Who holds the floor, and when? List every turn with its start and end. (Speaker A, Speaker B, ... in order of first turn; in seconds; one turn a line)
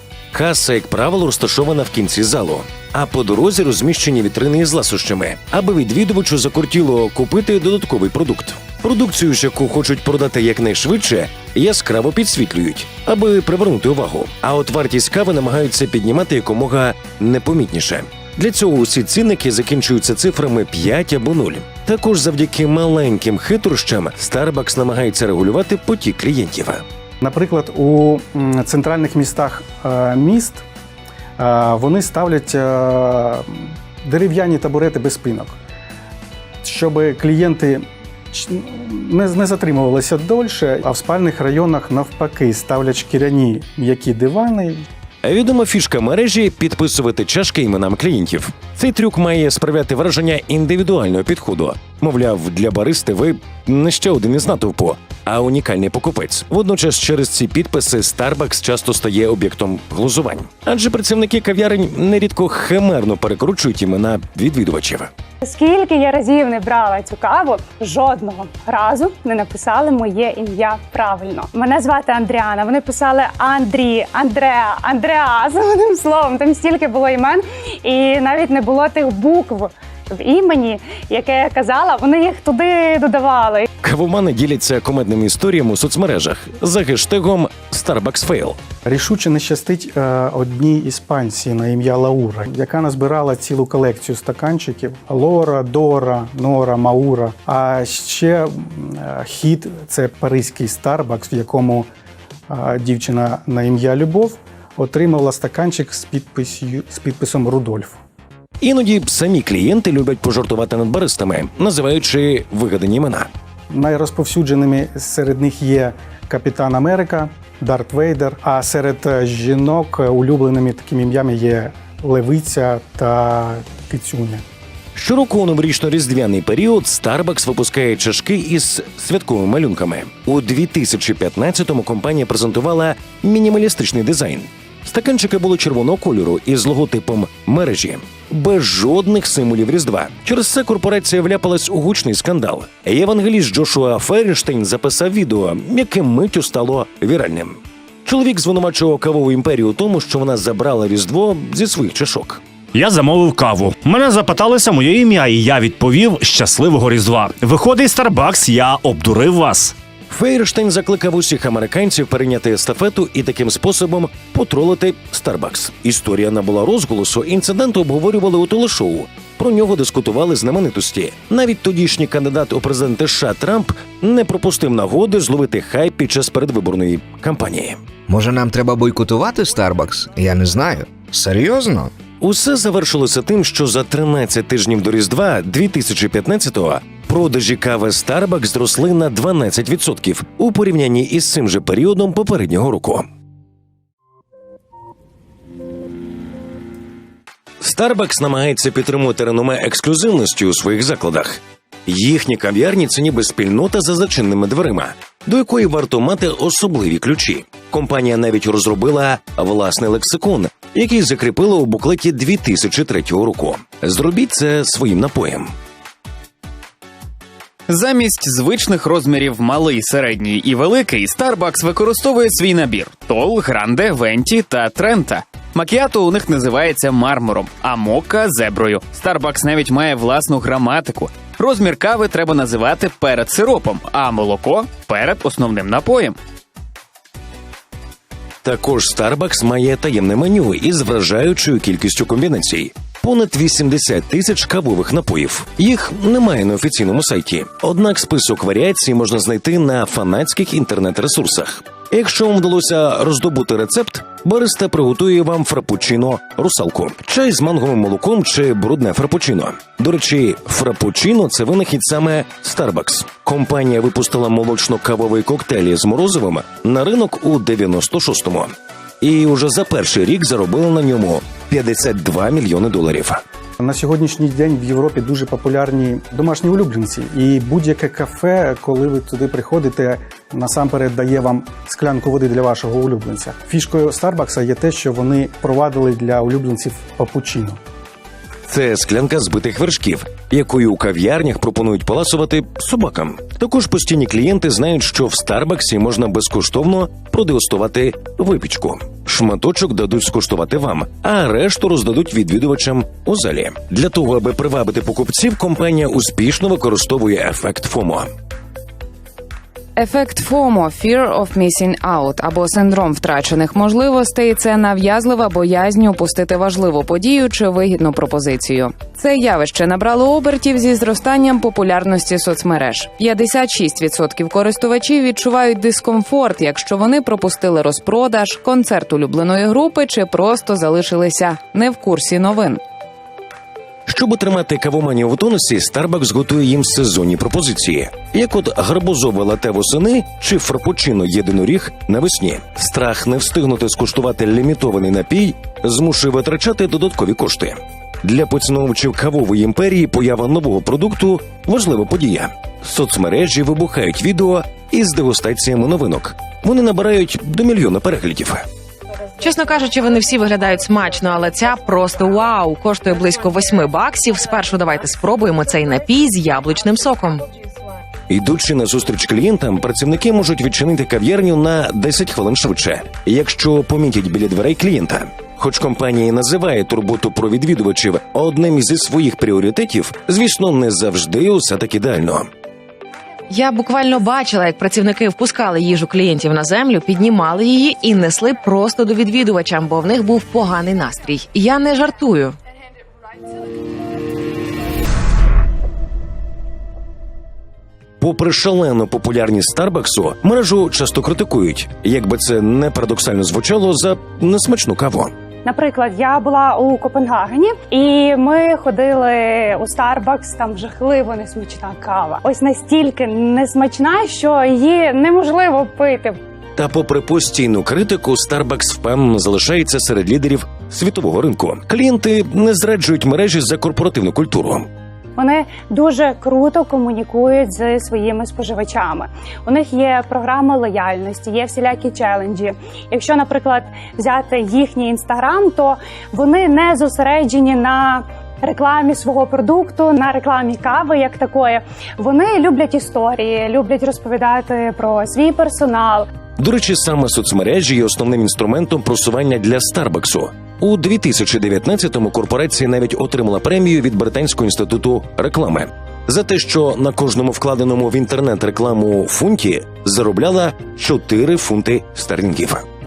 Speaker A: 0.3-26.8
Speaker B: 27.2-30.6
Speaker B: 31.4-35.6
Speaker B: 36.6-44.9
Speaker A: 45.2-65.1
Speaker C: 65.4-83.7
Speaker A: 83.8-88.6
Speaker B: 88.8-101.9
Speaker B: 102.5-108.0
Speaker A: 108.6-113.3
Speaker B: 113.7-124.4
Speaker A: 124.9-152.4
Speaker D: 152.7-159.7
Speaker A: 160.1-177.8
Speaker E: 178.1-181.9
Speaker A: 182.2-193.1
Speaker A: 197.6-215.5
Speaker F: 217.7-236.2
Speaker A: 238.4-273.2
Speaker B: 273.6-287.6
Speaker A: 288.5-308.1
Speaker G: 309.8-332.6
Speaker A: 333.9-358.4
Speaker H: 359.2-367.2
Speaker A: 368.1-382.3
Speaker H: 383.3-392.4
Speaker A: 398.0-405.1
Speaker C: 405.4-416.2
Speaker A: 416.6-424.7
Speaker C: 425.2-446.1
Speaker A: 446.4-462.6